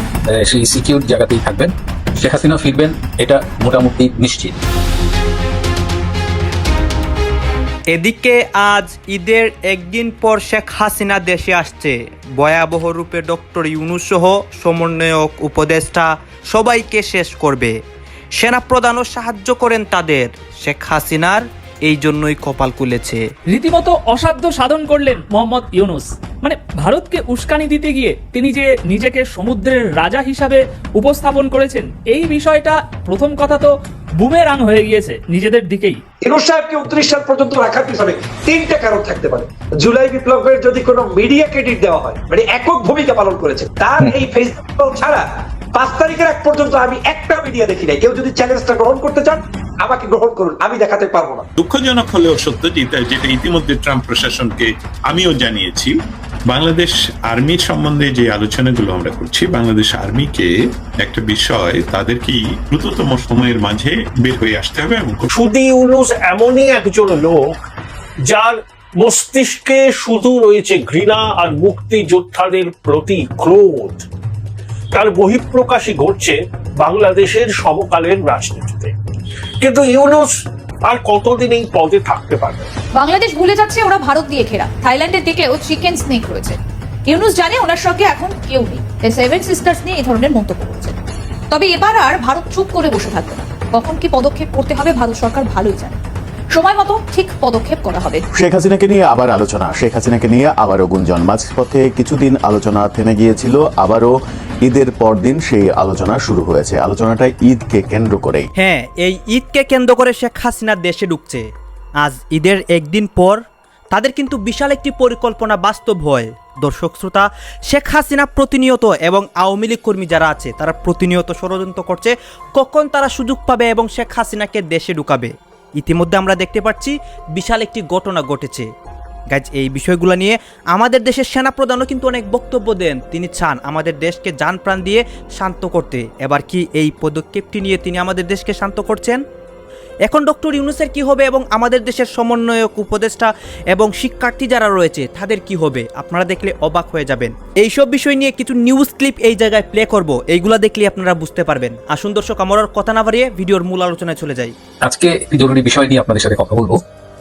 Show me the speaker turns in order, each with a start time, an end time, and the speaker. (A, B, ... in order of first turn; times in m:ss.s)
0:00.3-0:04.6 A
0:07.9-0:17.8 B
0:18.4-0:23.2 B
0:23.5-0:36.0 C
0:36.2-0:45.2 D
0:45.8-0:51.4 D
0:51.6-0:56.0 E
0:56.5-1:05.3 E
1:05.3-1:07.6 F
1:08.2-1:14.1 F
1:14.9-1:18.9 F
1:19.6-1:22.7 F
1:22.9-1:31.0 G
1:31.5-1:36.0 G
1:36.5-1:38.2 G
1:38.4-1:48.5 H
1:48.6-1:51.4 B
1:52.0-1:53.4 B
1:53.9-2:08.7 B
2:09.3-2:19.2 B
2:20.1-2:34.5 B
2:34.8-2:36.8 A